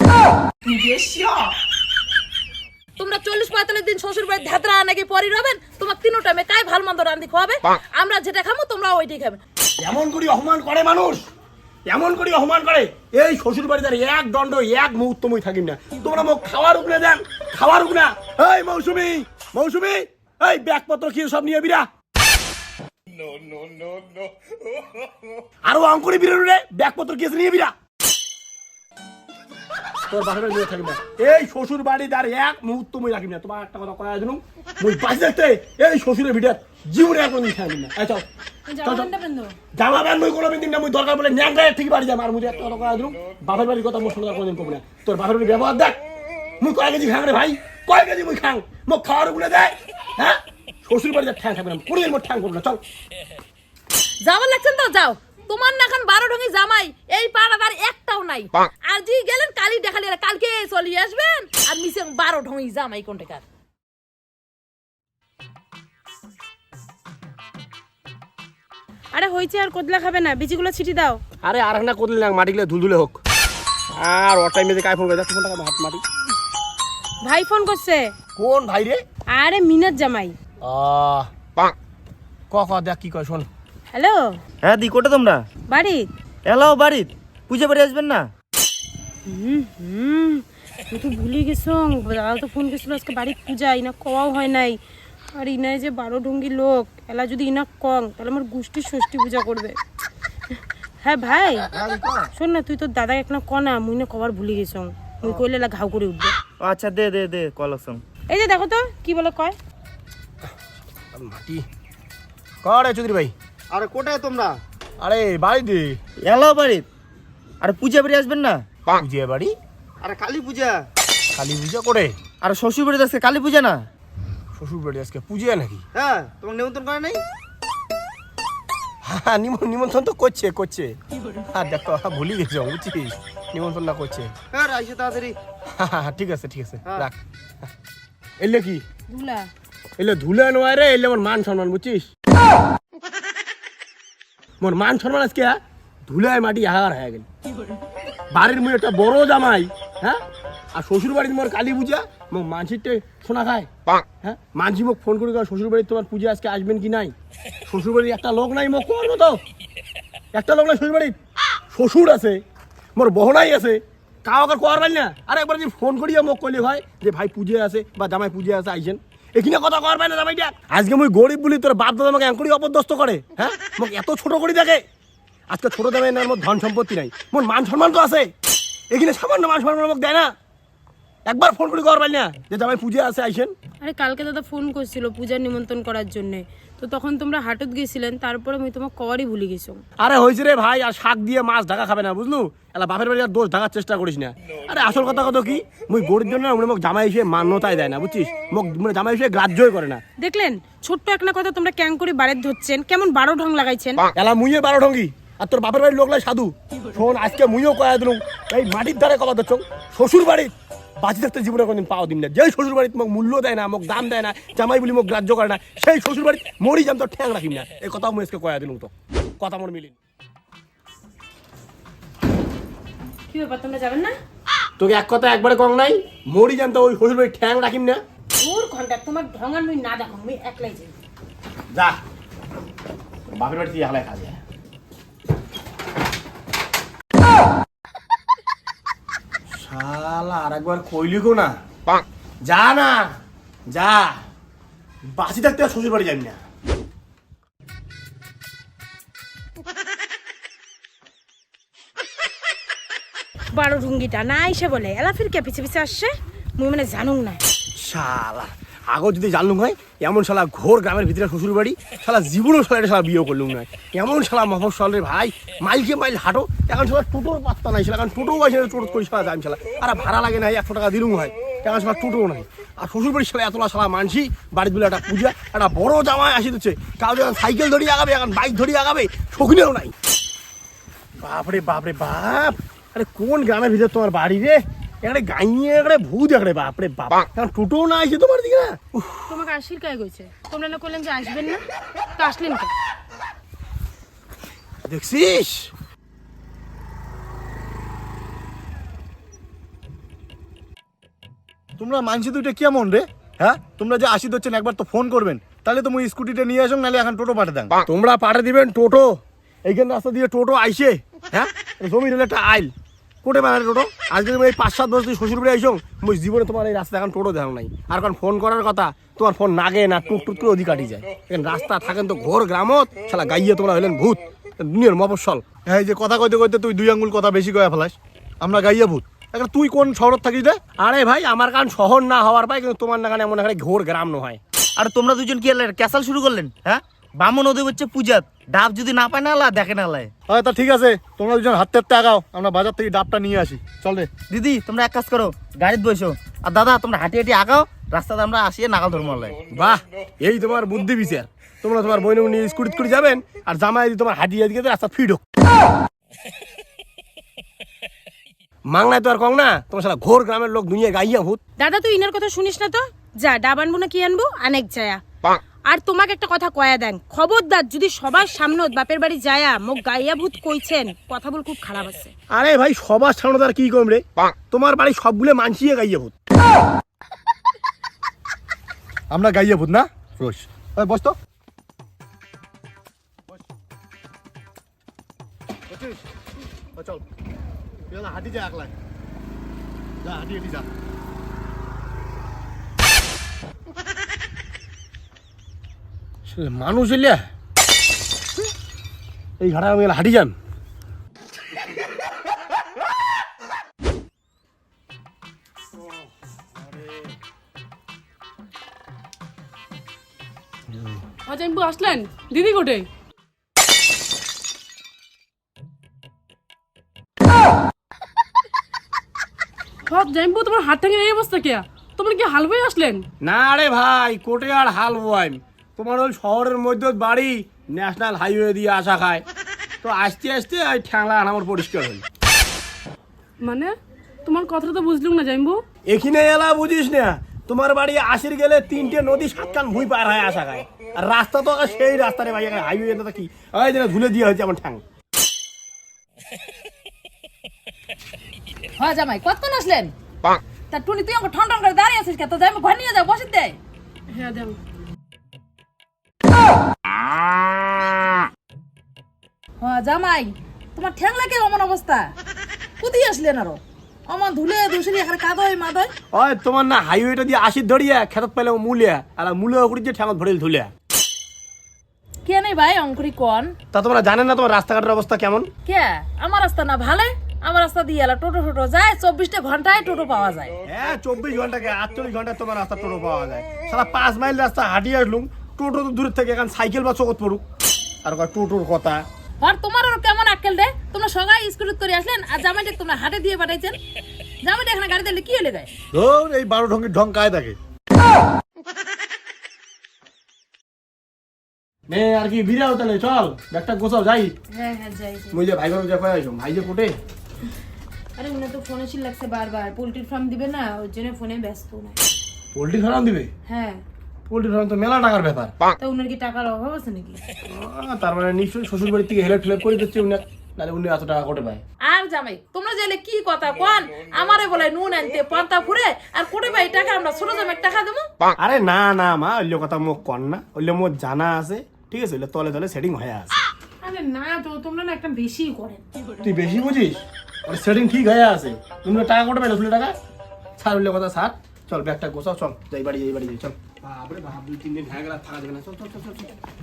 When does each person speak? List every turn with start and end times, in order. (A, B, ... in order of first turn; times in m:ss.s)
0:00.7-0:01.4 A
0:03.0-0:09.4 A
0:09.8-0:11.3 B
0:11.8-0:21.9 B
0:25.6-0:27.7 B
0:30.0-0:38.2 B
0:38.7-0:39.6 C
0:38.8-0:39.1 B
0:39.7-0:46.0 B
0:46.6-0:52.8 B
0:54.2-1:03.4 A
1:09.1-1:11.2 C
1:11.4-1:13.2 B
1:14.0-1:16.0 B
1:17.2-1:18.1 C
1:18.4-1:19.0 B
1:19.3-1:20.4 C
1:20.6-1:21.3 B
1:22.5-1:23.5 B
1:23.9-1:24.4 C
1:24.6-1:25.4 D
1:25.7-1:26.1 C
1:26.4-1:28.3 D
1:29.3-1:34.8 C
1:35.3-1:39.8 C
1:41.0-1:41.7 C
1:41.7-1:42.3 D
1:42.3-1:46.3 C
1:46.6-1:48.0 D
1:48.3-1:49.6 C
1:51.1-1:51.6 B
1:52.6-1:53.3 B
1:53.7-1:54.6 D
1:55.0-1:56.0 B
1:56.2-1:56.9 D
1:57.6-1:58.6 D
1:59.0-1:59.6 B
2:00.0-2:00.9 D
2:01.3-2:02.2 B
2:02.4-2:03.9 D
2:04.6-2:05.8 B
2:05.9-2:07.2 D
2:09.0-2:11.0 B
2:11.5-2:14.3 B
2:14.5-2:15.4 D
2:15.8-2:17.1 B
2:18.4-2:18.8 B
2:19.1-2:19.5 C
2:20.0-2:22.1 B
2:24.6-2:27.2 B
2:28.3-2:30.2 B
2:30.7-2:33.7 B
2:34.2-2:37.1 B
2:37.7-2:39.4 B
2:40.3-2:41.2 B
2:41.7-2:42.4 B
2:42.9-2:54.8 B
2:55.5-2:58.3 B
2:58.9-3:00.3 B
3:01.2-3:03.5 B
3:03.8-3:09.8 C
3:10.0-3:20.0 B
3:20.2-3:24.1 C
3:24.1-3:39.9 B
3:43.3-3:44.2 C
3:44.8-3:48.0 B
3:48.4-3:50.9 C
3:51.7-3:52.0 B
3:53.3-3:54.4 B
3:59.5-4:01.5 B
4:02.4-4:03.1 B
4:03.7-4:04.2 B
4:05.1-4:06.4 B
4:13.5-4:17.4 C
4:17.8-4:39.9 B
4:41.2-4:49.2 B
4:49.3-4:51.6 C
4:52.2-4:52.7 C
4:54.9-4:55.7 B
5:01.8-5:07.8 E
5:07.8-5:12.7 B
5:13.2-5:25.4 B
5:25.6-5:30.6 E
5:30.8-5:34.4 B
5:34.8-5:40.1 D
5:40.3-5:44.1 E
5:44.3-5:49.4 D
5:49.5-5:55.2 B
5:58.7-6:01.4 B
6:01.6-6:05.0 C
6:05.6-6:12.1 C
6:12.3-6:16.1 B
6:19.1-6:21.2 E
6:25.7-6:26.0 E
6:26.8-6:27.0 E
6:27.9-6:28.7 E
6:30.0-6:30.7 E
6:36.2-6:37.3 B
6:39.4-6:40.3 B
6:51.3-6:52.9 F
6:59.9-7:03.1 F
7:03.2-7:09.2 B
7:09.8-7:12.0 B
7:13.4-7:15.6 F
7:15.8-7:24.8 B
7:28.8-7:29.9 A
7:30.7-7:33.6 A
7:34.1-7:34.5 C
7:39.6-7:42.1 A
7:42.8-7:45.9 A
7:46.1-7:50.7 B
7:52.2-7:53.5 A
7:53.7-7:55.5 B
7:55.6-8:00.5 A
8:00.7-8:07.4 B
8:08.0-8:09.0 B
8:09.4-8:13.8 A
8:14.4-8:15.7 A
8:15.9-8:17.6 E
8:21.9-8:24.3 B
8:24.5-8:25.4 C
8:25.3-8:26.9 B
8:28.2-8:32.0 C
8:32.5-8:33.3 B
8:33.4-8:33.8 C
8:34.3-8:35.5 B
8:35.8-8:37.2 C
8:37.5-8:41.6 B
8:41.8-8:48.1 A
8:48.4-8:53.4 B
8:53.8-8:55.8 C
8:56.2-9:00.0 B
9:00.6-9:06.3 B